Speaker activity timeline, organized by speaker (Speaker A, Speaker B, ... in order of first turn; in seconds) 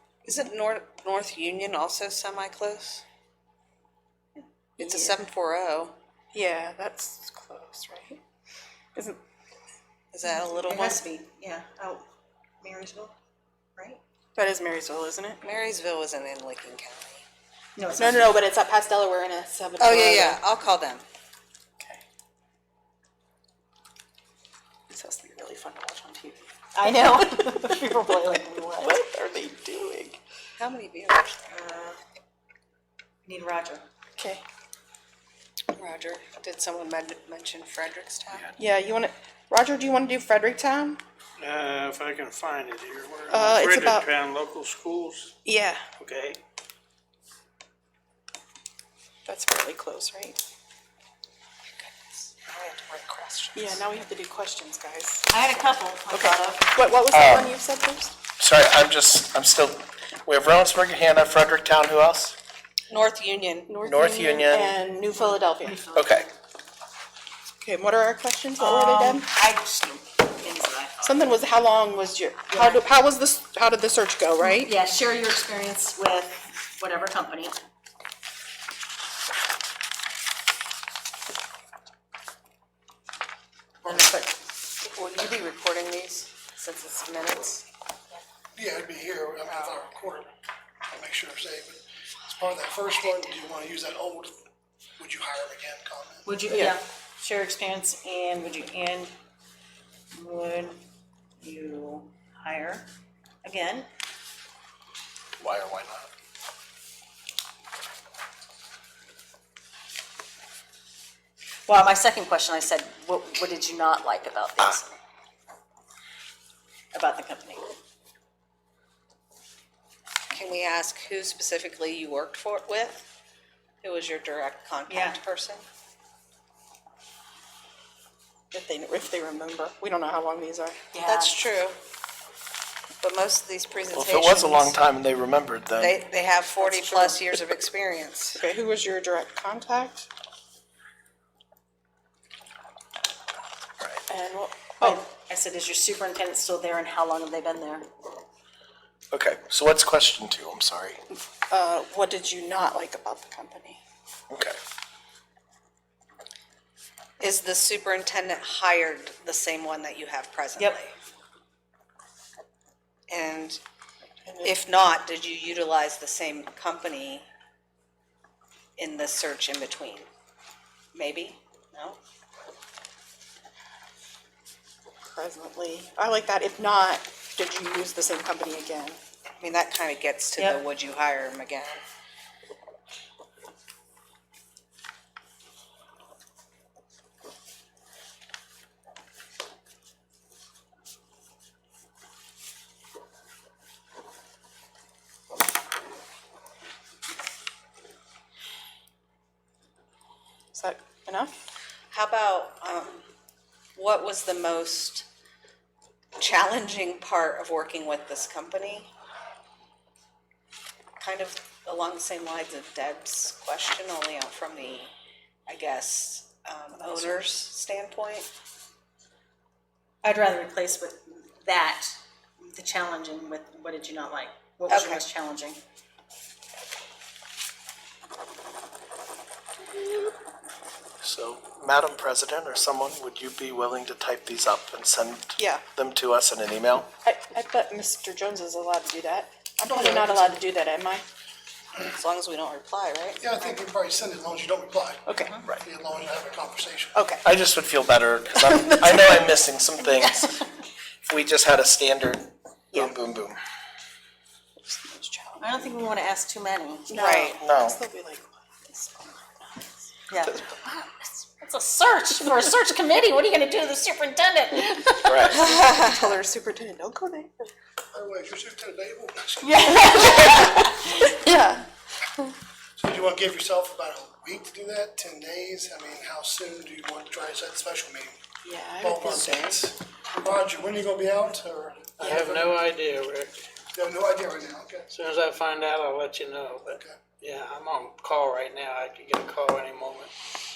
Speaker A: 0.2-3.0, 4.8-5.9, 10.1-11.0, 15.4-17.2, 19.8-21.0, 30.6-31.6, 35.7-38.5, 51.8-53.8, 62.9-63.7, 84.8-87.6, 120.3-123.0, 123.8-125.6, 131.0-131.8, 133.0-134.8, 135.8-138.4, 157.2-160.9, 163.1-163.6, 164.4-167.2, 168.8-170.1, 170.9-172.0, 179.4-181.8, 201.9-203.1, 203.7-205.1, 206.2-208.9, 211.0-214.9, 215.5-218.3, 224.7-225.0, 241.9-243.2, 257.0-257.4, 265.4-266.0
Speaker B: 4.8-5.2, 6.3-8.2, 8.9-9.2, 14.3-15.4, 18.0-20.4, 24.9-27.6, 28.8-30.2, 34.2-34.4, 38.6-41.0, 43.3-44.1, 45.4-45.8, 49.2-50.4, 53.5-55.3, 56.1-58.1, 63.7-65.8, 67.6-69.3, 71.0-74.7, 96.5-96.8, 128.5-130.8, 138.3-140.1, 144.1-145.0, 151.5-153.8, 164.2-164.6, 175.1-179.0, 200.5-201.4, 235.4-235.6, 237.0-241.0, 245.1-245.3, 246.9-247.2, 248.4-249.2, 254.6-255.6, 256.9-261.1, 265.3-267.5, 269.4-271.7, 278.4-279.6, 282.0-282.4
Speaker C: 10.2-12.0, 12.6-13.1, 13.8-14.0, 17.8-18.4, 26.7-29.0, 31.5-32.0, 33.2-33.9, 55.3-56.9, 65.1-66.3, 68.6-71.3, 72.5-72.8, 74.4-77.6, 83.8-84.3, 96.2-99.1, 100.1-100.8, 101.4-102.9, 103.4-103.9, 111.7-114.9, 116.9-117.7, 124.9-125.2, 130.9-131.4, 136.6-137.1, 144.8-147.9, 216.7-217.3, 220.0-225.6, 245.2-245.4, 255.4-257.3, 260.1-260.4, 261.4-265.4, 269.6-270.7
Speaker D: 41.4-45.4, 46.0-46.4, 282.0-283.3, 284.9-290.1
Speaker E: 57.1-57.5, 58.4-62.4, 63.8-64.8, 65.9-66.2, 105.4-106.1, 133.9-136.0, 149.1-151.0, 154.3-154.6, 231.0-236.9, 247.2-250.4, 251.0-253.4, 257.4-257.8, 265.0-265.4
Speaker F: 88.5-90.3, 90.9-94.5, 95.0-96.3, 239.7-240.4, 243.2-246.9, 267.9-270.1, 272.8-278.2, 278.8-282.5, 283.7-284.9, 286.7-287.0